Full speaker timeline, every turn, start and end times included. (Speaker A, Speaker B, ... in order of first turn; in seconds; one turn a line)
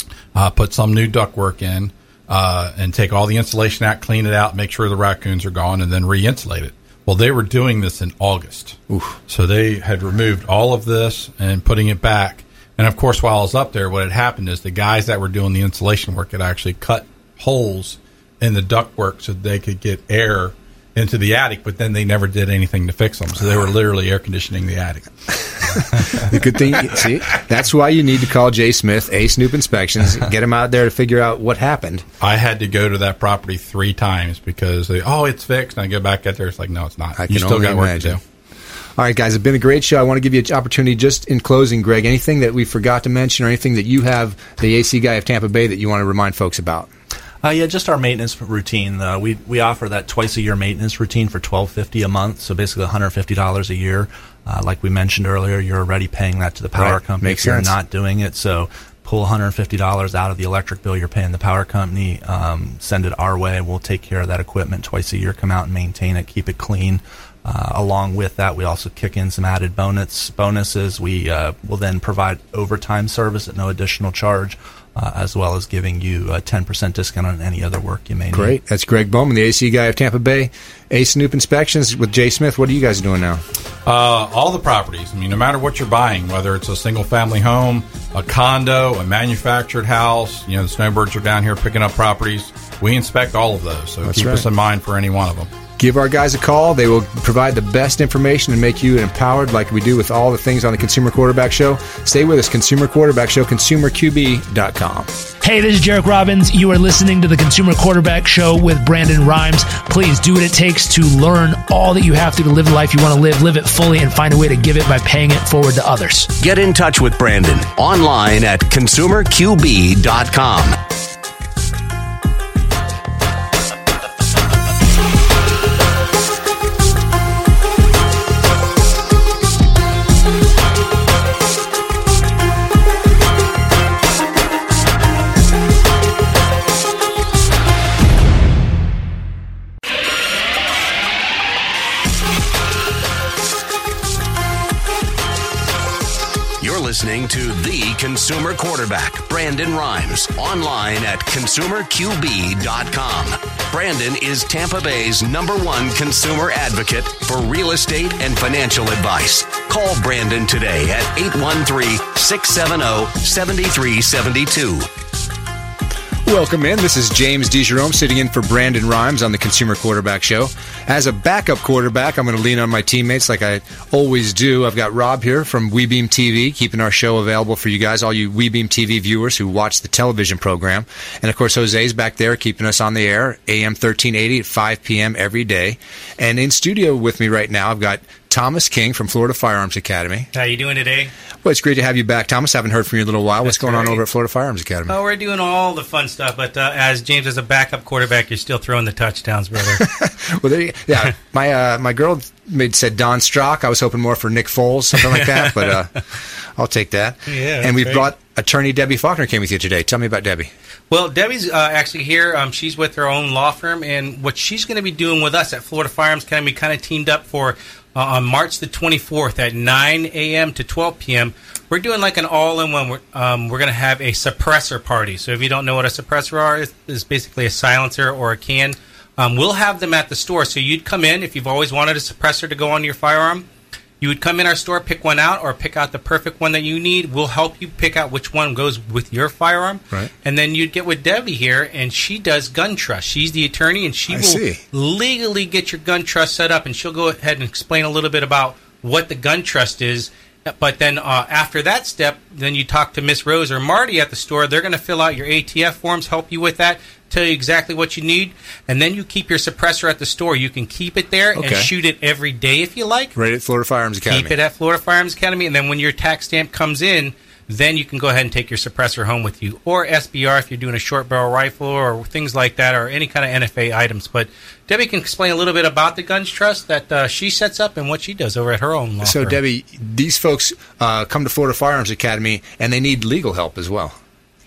Speaker A: 0.3-8.8
Speaker B: 8.9-9.2
Speaker A: 9.3-25.8
Speaker B: 26.2-32.0
Speaker A: 32.2-38.2
Speaker B: 37.2-38.2
Speaker B: 39.0-46.9
Speaker C: 47.4-78.6
Speaker B: 56.8-57.7
Speaker B: 78.3-83.4
Speaker A: 83.9-95.5
Speaker B: 94.0-94.5
Speaker B: 95.8-105.1
Speaker D: 105.4-116.3
Speaker E: 116.4-120.8
Speaker E: 146.6-164.9
Speaker B: 166.3-190.3
Speaker F: 190.3-191.1
Speaker B: 191.4-194.9
Speaker F: 193.4-194.0
Speaker F: 194.9-199.8
Speaker B: 199.8-206.0
Speaker F: 205.0-205.8
Speaker B: 206.6-210.5
Speaker F: 207.3-208.1
Speaker F: 210.9-233.4
Speaker F: 234.0-263.1
Speaker B: 244.1-244.6
Speaker B: 261.4-261.7
Speaker B: 263.1-264.4
Speaker F: 264.1-279.4
Speaker B: 279.0-283.9